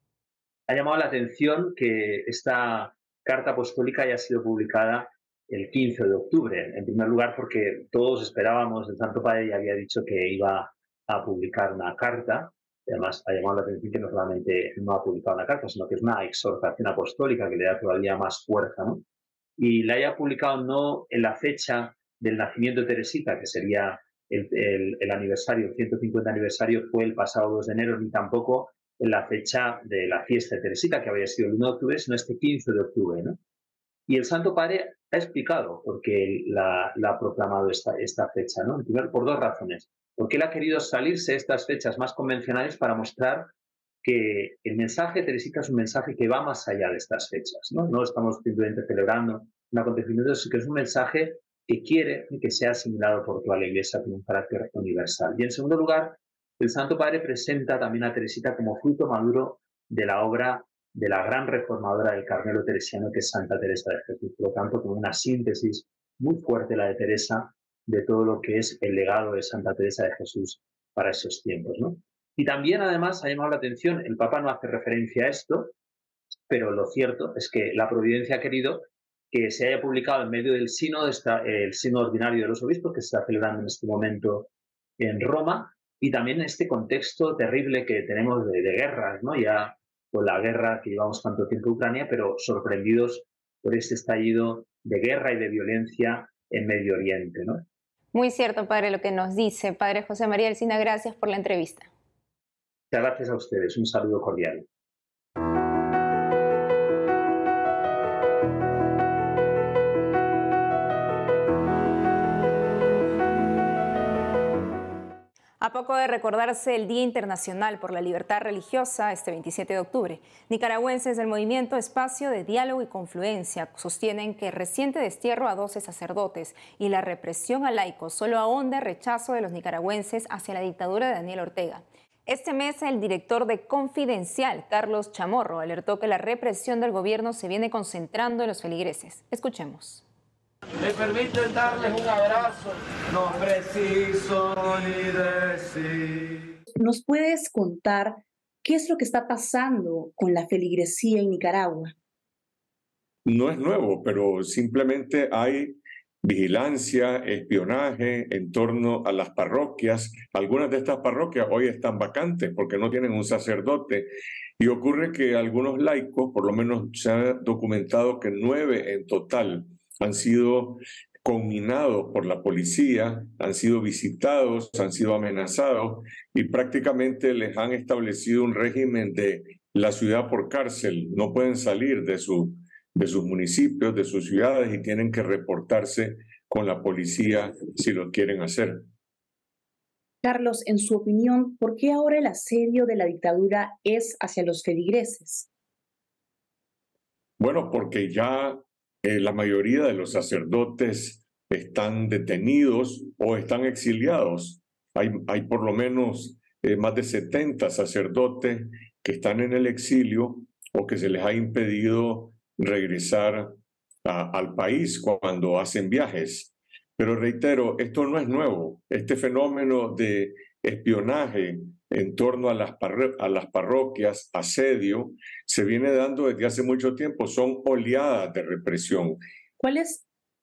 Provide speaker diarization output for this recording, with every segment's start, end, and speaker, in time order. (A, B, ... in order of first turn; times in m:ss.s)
0:00.7-0:19.0 A
0:19.6-0:33.4 A
0:34.1-0:43.5 A
0:44.0-1:15.7 A
1:16.5-1:37.6 A
1:38.1-1:41.9 B
1:42.9-1:44.7 A
1:55.6-2:20.0 B
2:20.8-2:26.5 C
2:26.8-2:32.0 D
2:33.2-3:08.9 E
3:10.2-3:15.5 D
3:17.4-3:49.2 E
3:49.6-3:50.0 D